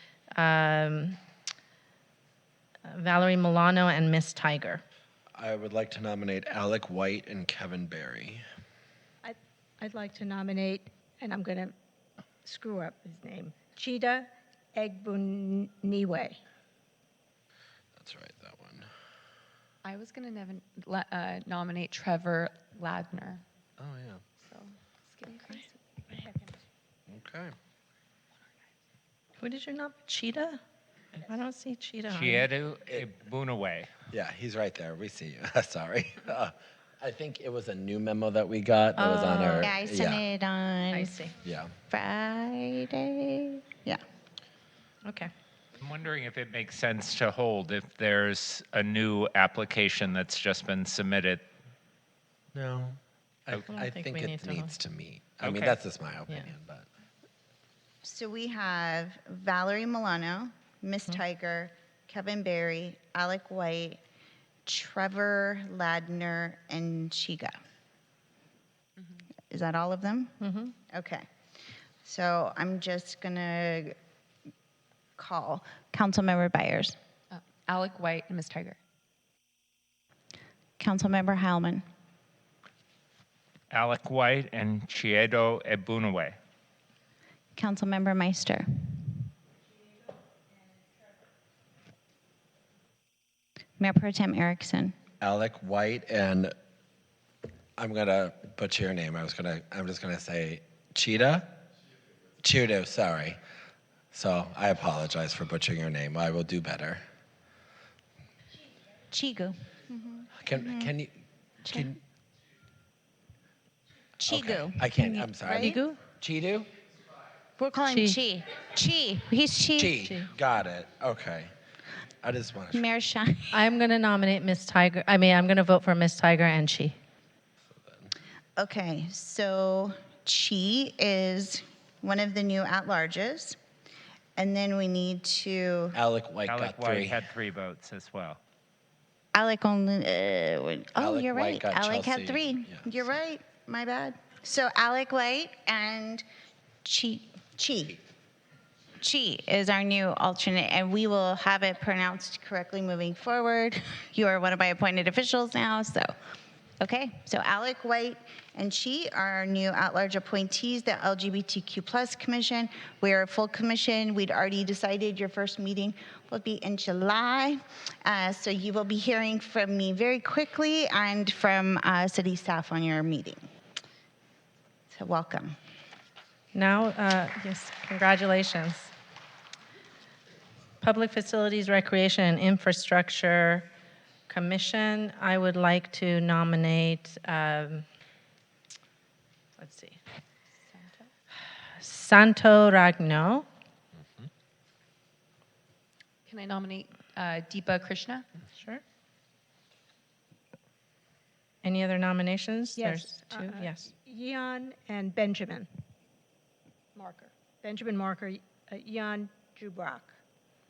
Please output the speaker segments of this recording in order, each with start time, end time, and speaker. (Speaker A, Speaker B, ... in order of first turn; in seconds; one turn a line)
Speaker A: 0.4-1.2
Speaker A: 2.9-4.8
Speaker B: 5.3-8.4
Speaker C: 9.2-11.8
Speaker C: 12.4-16.4
Speaker B: 18.0-18.9
Speaker D: 19.8-23.4
Speaker B: 23.8-24.2
Speaker D: 24.5-25.8
Speaker B: 27.1-27.6
Speaker A: 29.4-30.6
Speaker A: 31.2-32.5
Speaker E: 32.1-33.9
Speaker B: 34.1-40.2
Speaker A: 39.0-39.7
Speaker F: 39.6-41.1
Speaker A: 40.9-41.3
Speaker B: 41.4-41.7
Speaker F: 41.9-44.0
Speaker A: 45.0-45.3
Speaker E: 45.8-51.5
Speaker B: 52.5-56.9
Speaker A: 53.7-54.7
Speaker E: 55.4-55.8
Speaker F: 58.0-64.0
Speaker F: 64.7-67.5
Speaker F: 69.5-70.3
Speaker A: 70.4-70.7
Speaker F: 70.9-71.2
Speaker F: 72.0-74.0
Speaker F: 75.2-77.0
Speaker D: 77.3-78.8
Speaker F: 80.8-81.8
Speaker E: 83.7-86.4
Speaker F: 87.6-89.0
Speaker F: 93.8-95.0
Speaker B: 95.2-96.5
Speaker B: 97.8-101.5
Speaker B: 102.4-103.4
Speaker B: 104.1-107.0
Speaker F: 109.1-110.9
Speaker B: 110.4-111.1
Speaker B: 111.7-112.0
Speaker F: 114.2-115.8
Speaker B: 114.3-116.7
Speaker A: 115.6-116.0
Speaker F: 117.6-120.0
Speaker A: 117.9-118.2
Speaker B: 119.8-121.5
Speaker A: 120.0-120.3
Speaker B: 122.2-122.9
Speaker F: 122.7-123.6
Speaker A: 123.5-127.0
Speaker B: 127.8-128.1
Speaker F: 128.6-133.6
Speaker F: 134.4-136.0
Speaker B: 135.9-137.2
Speaker E: 136.5-138.4
Speaker F: 139.3-146.2
Speaker B: 141.0-142.9
Speaker F: 146.8-148.0
Speaker F: 149.0-156.1
Speaker F: 156.8-173.5
Speaker F: 174.9-175.6
Speaker A: 176.5-178.9
Speaker A: 180.8-183.7
Speaker A: 184.3-187.8
Speaker A: 189.6-190.0
Speaker D: 190.6-191.1
Speaker A: 191.8-193.5
Speaker D: 196.3-198.3
Speaker A: 198.6-198.8
Speaker A: 201.6-203.9
Speaker C: 202.8-205.7
Speaker C: 206.9-210.2